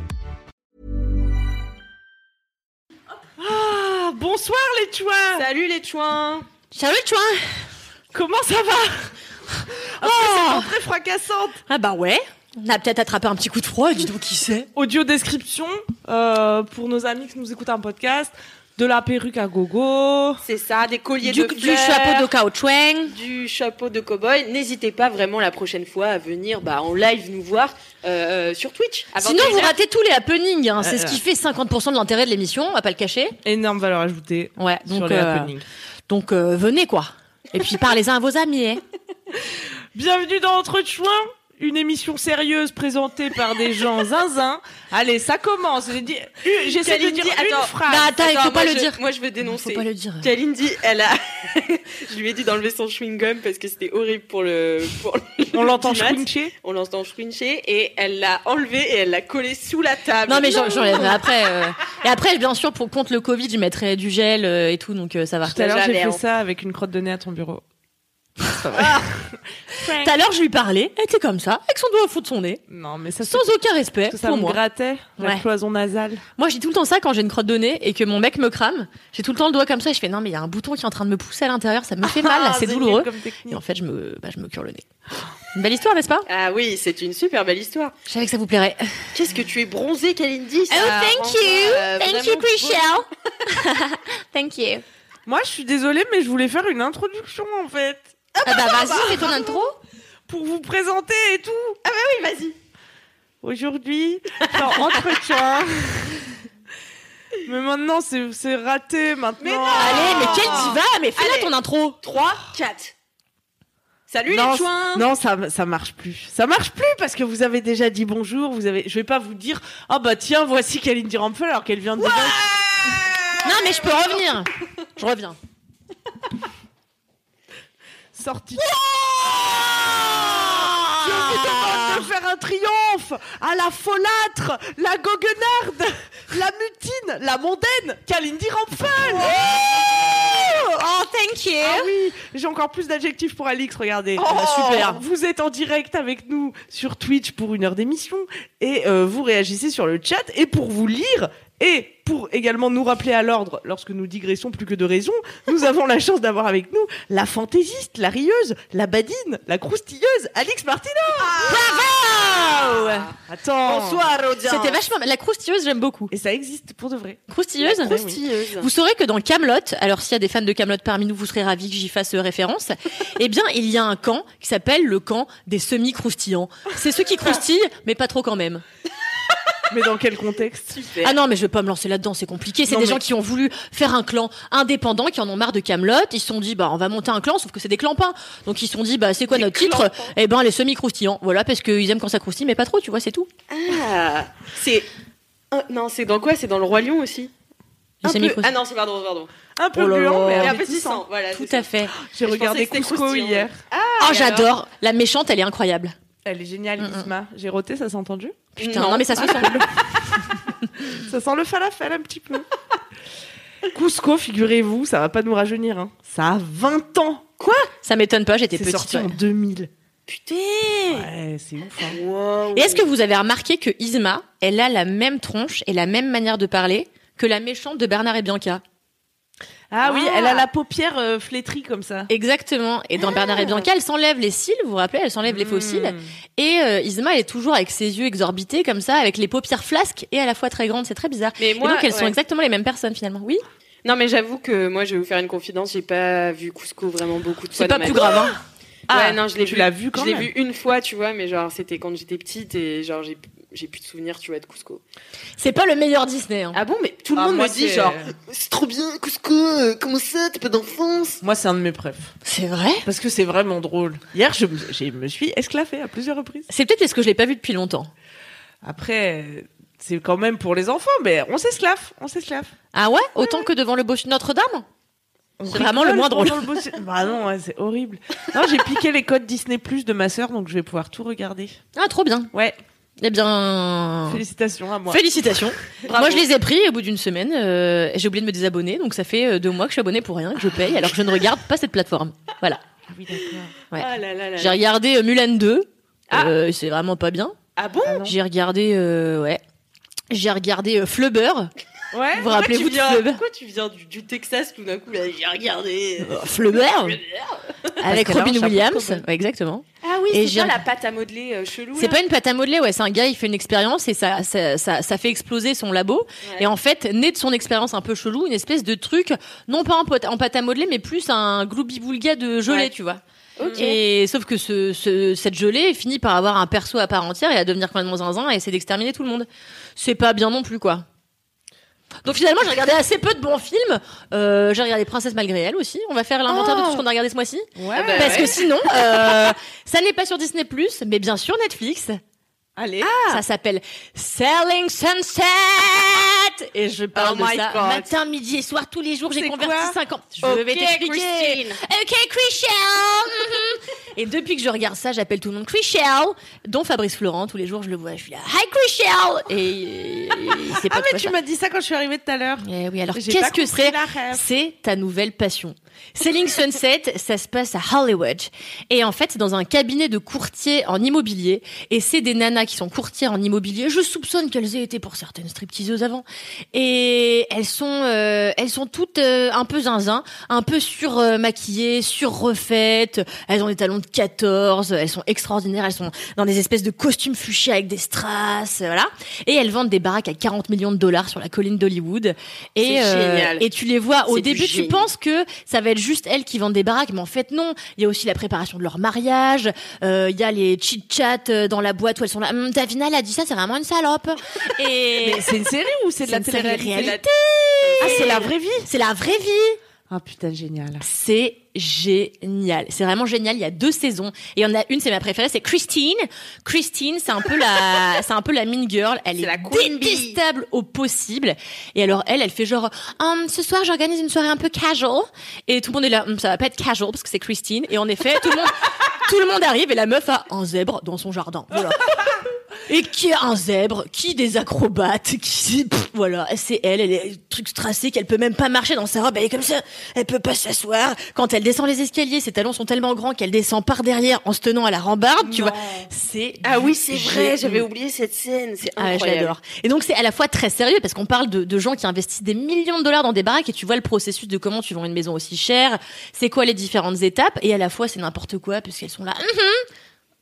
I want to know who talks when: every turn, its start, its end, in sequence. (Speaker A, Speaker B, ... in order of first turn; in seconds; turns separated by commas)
Speaker A: 3.4-5.5, Speaker B: 5.3-6.5, Speaker C: 6.7-7.6, Speaker A: 8.1-11.6, Speaker C: 10.0-10.7, Speaker C: 11.7-14.7, Speaker A: 14.8-20.4, Speaker B: 20.4-22.3, Speaker C: 21.2-23.1, Speaker B: 23.1-29.8, Speaker C: 29.2-33.4, Speaker A: 30.8-31.2, Speaker A: 33.5-35.6, Speaker C: 34.6-35.5, Speaker C: 36.1-38.8, Speaker A: 40.0-48.1, Speaker B: 46.8-61.2, Speaker C: 47.9-50.3, Speaker A: 55.5-56.5, Speaker C: 60.3-65.6, Speaker B: 65.5-66.2, Speaker A: 65.5-67.6, Speaker A: 68.4-70.1, Speaker C: 69.9-72.6, Speaker A: 72.7-73.5, Speaker C: 73.3-74.6, Speaker A: 74.1-76.2, Speaker C: 75.2-75.4, Speaker C: 76.4-84.8, Speaker A: 82.0-83.6, Speaker C: 85.5-86.3, Speaker B: 86.3-88.0, Speaker C: 88.1-89.1, Speaker B: 89.1-93.0, Speaker C: 90.7-94.8, Speaker A: 95.3-99.4, Speaker B: 98.4-99.3, Speaker C: 98.5-99.8, Speaker A: 100.3-101.8, Speaker B: 101.8-102.6, Speaker A: 103.4-106.3, Speaker B: 104.5-104.8, Speaker A: 107.5-110.7, Speaker B: 109.4-112.9, Speaker C: 109.8-112.0, Speaker B: 114.1-115.1, Speaker A: 114.3-122.4, Speaker B: 122.0-124.1, Speaker C: 123.4-125.4, Speaker A: 128.1-128.7, Speaker B: 128.8-130.2, Speaker C: 129.3-132.1, Speaker A: 130.6-139.4, Speaker C: 139.2-141.9, Speaker A: 141.6-161.7, Speaker B: 144.2-144.7, Speaker C: 144.3-145.0, Speaker B: 161.2-163.1, Speaker C: 161.4-163.1, Speaker A: 163.2-164.1, Speaker B: 163.6-164.8, Speaker C: 164.4-166.1, Speaker A: 166.1-167.2, Speaker C: 167.3-168.0, Speaker B: 167.6-168.7, Speaker A: 167.8-168.2, Speaker C: 168.6-178.6, Speaker A: 179.7-180.9, Speaker B: 180.8-181.2, Speaker C: 181.0-193.3, Speaker A: 182.7-183.0, Speaker B: 189.3-190.2, Speaker B: 193.5-194.9, Speaker B: 195.5-197.3, Speaker C: 198.0-198.5, Speaker B: 198.0-199.3, Speaker A: 199.6-201.0, Speaker C: 199.7-200.6, Speaker B: 200.4-201.7, Speaker C: 201.3-201.9, Speaker A: 202.0-203.6, Speaker B: 202.2-204.5, Speaker C: 204.0-205.9, Speaker A: 206.2-208.5, Speaker C: 206.8-207.1, Speaker C: 208.6-209.6, Speaker B: 208.6-209.6, Speaker A: 209.2-209.6, Speaker A: 210.9-212.5, Speaker A: 213.7-217.2, Speaker B: 217.4-217.7, Speaker C: 217.8-219.1, Speaker A: 218.5-219.7, Speaker B: 220.1-221.1, Speaker A: 220.9-222.0, Speaker B: 221.8-222.8, Speaker C: 222.5-228.6, Speaker A: 229.7-232.1, Speaker C: 229.8-230.4, Speaker C: 232.1-243.4, Speaker A: 235.3-236.1, Speaker B: 241.4-242.2, Speaker B: 243.8-248.3, Speaker C: 247.5-248.3, Speaker A: 248.9-250.3, Speaker B: 248.9-254.8, Speaker C: 255.4-256.6, Speaker B: 256.5-261.2, Speaker A: 257.1-258.1, Speaker A: 261.2-262.1, Speaker C: 262.2-262.9, Speaker A: 262.9-266.5, Speaker C: 266.5-267.9, Speaker A: 268.6-272.5, Speaker C: 272.7-274.7, Speaker A: 275.4-281.6, Speaker C: 275.5-276.6, Speaker C: 281.8-282.3, Speaker C: 283.0-284.2, Speaker A: 284.1-285.0, Speaker C: 284.9-292.6, Speaker B: 285.8-286.3, Speaker A: 292.9-293.6, Speaker C: 293.7-297.4, Speaker B: 293.8-294.6, Speaker B: 296.1-296.4, Speaker B: 297.6-298.1, Speaker A: 297.9-298.2, Speaker C: 298.0-299.4, Speaker C: 300.1-301.5, Speaker A: 301.9-302.3, Speaker B: 302.1-307.7, Speaker C: 302.2-303.2, Speaker C: 306.0-307.0, Speaker A: 307.8-309.0, Speaker C: 307.8-310.6, Speaker B: 309.8-312.0, Speaker C: 311.8-323.0, Speaker B: 323.4-323.8, Speaker C: 323.5-330.9, Speaker C: 332.0-342.0, Speaker B: 336.3-336.8, Speaker A: 337.6-338.4, Speaker B: 337.7-338.4, Speaker A: 342.6-343.0, Speaker B: 342.8-343.2, Speaker C: 343.0-361.2, Speaker B: 346.9-347.9, Speaker A: 349.2-349.8, Speaker B: 350.2-351.6, Speaker A: 360.4-364.2, Speaker C: 362.4-405.3, Speaker B: 392.6-393.5, Speaker B: 394.1-394.9, Speaker A: 405.0-407.0, Speaker C: 406.1-409.6, Speaker B: 406.7-407.1, Speaker B: 407.6-408.3, Speaker A: 407.8-408.7, Speaker A: 409.9-410.9, Speaker C: 410.8-432.1, Speaker B: 419.2-420.2, Speaker C: 432.7-447.7, Speaker B: 445.3-445.9, Speaker B: 446.4-449.3, Speaker C: 448.8-459.7